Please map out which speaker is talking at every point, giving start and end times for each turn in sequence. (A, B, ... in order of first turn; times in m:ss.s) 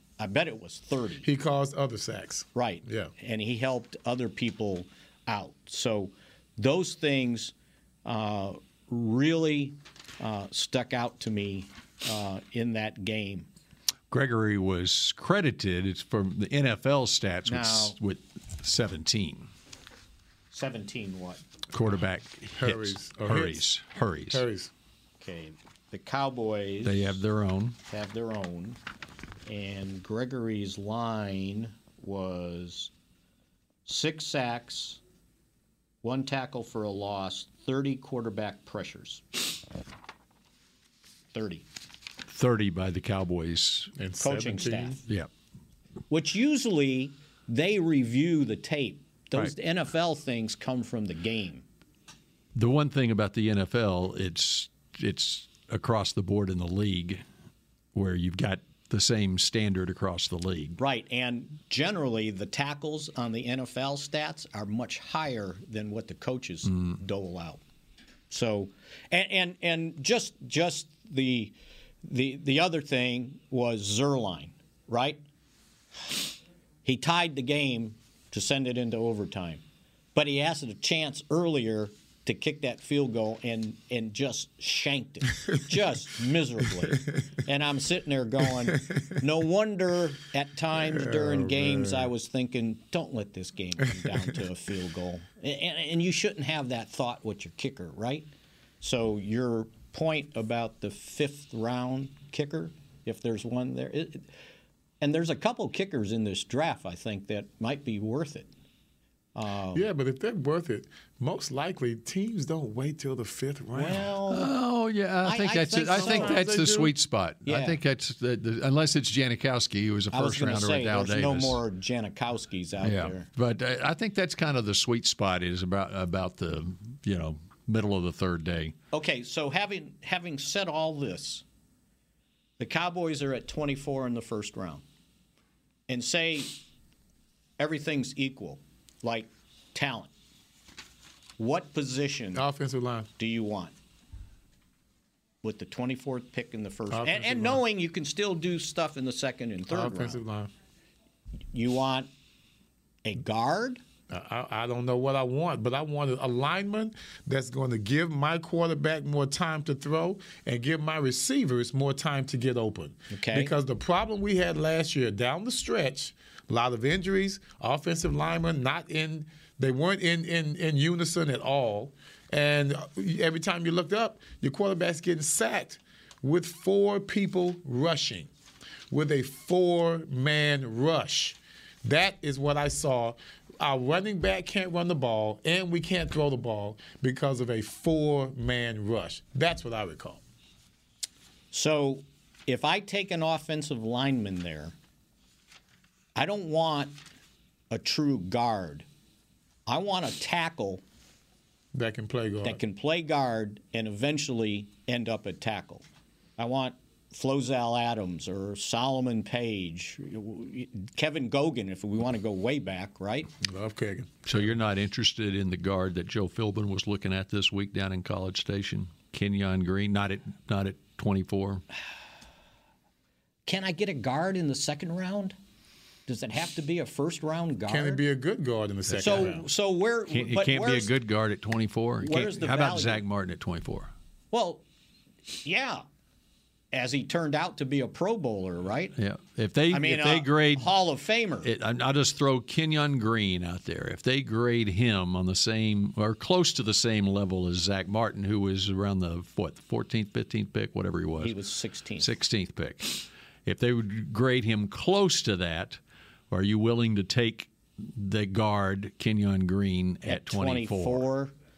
0:00.2-0:01.3 A
0:01.2-0:03.1 B
0:02.6-0:07.5 A
0:08.0-0:13.5 A
0:14.1-0:19.5 C
0:17.5-0:18.0 A
0:20.5-0:21.4 A
0:21.7-0:24.4 C
0:22.6-0:23.7 B
0:24.3-0:24.7 B
0:25.2-0:27.2 A
0:26.8-0:27.8 C
0:27.9-0:28.8 A
0:29.5-0:32.9 A
0:33.9-0:35.0 A
0:36.0-0:39.2 A
0:41.3-0:41.6 A
0:42.3-0:43.9 C
0:44.0-0:45.0 B
0:44.2-0:45.0 A
0:46.1-0:51.6 A
0:52.6-0:57.2 C
0:57.9-1:00.8 C
1:00.8-1:07.6 A
1:06.7-1:06.9 C
1:08.3-1:11.5 A
1:12.0-1:15.2 A
1:16.8-1:19.6 A
1:20.2-1:38.3 A
1:28.8-1:29.1 B
1:30.8-1:32.1 B
1:38.8-1:44.3 A
1:45.0-1:48.5 A
1:49.4-1:49.9 A
1:49.7-1:54.1 B
1:53.7-1:54.5 A
1:54.3-2:01.6 C
1:55.2-1:56.4 A
1:55.9-1:56.9 B
1:57.5-1:57.8 A
2:00.1-2:03.3 A
2:02.8-2:08.8 C
2:08.9-2:11.4 A
2:12.6-2:14.8 A
2:15.9-2:16.6 A
2:17.6-2:20.1 A
2:21.4-2:22.5 A
2:22.3-2:23.1 B
2:23.2-2:23.7 A
2:25.4-2:30.2 A
2:26.9-2:27.6 B
2:29.7-2:30.5 B
2:31.5-2:32.1 A
2:33.0-2:33.8 A
2:34.1-2:58.3 B
2:43.1-2:43.5 A
2:58.9-3:10.2 B
3:11.5-3:14.8 A
3:16.2-3:17.0 A
3:17.7-3:18.9 A
3:19.7-3:20.8 A
3:21.7-3:22.6 B
3:22.4-3:25.8 A
3:26.4-3:33.3 A
3:33.4-3:34.5 B
3:34.3-3:41.6 C
3:43.5-3:45.4 A
3:46.1-3:48.0 A
3:47.7-3:49.4 B
3:48.9-3:49.3 C
3:49.0-3:50.9 A
3:50.1-3:53.9 C
3:52.0-3:53.0 A
3:54.3-3:54.6 A
3:55.4-3:55.8 A
3:56.7-3:58.9 A
3:59.0-4:00.7 C
3:59.7-4:01.5 A
4:01.4-4:11.3 C
4:11.2-4:12.1 A
4:12.0-4:15.8 C
4:16.3-4:21.1 C
4:20.0-4:21.3 A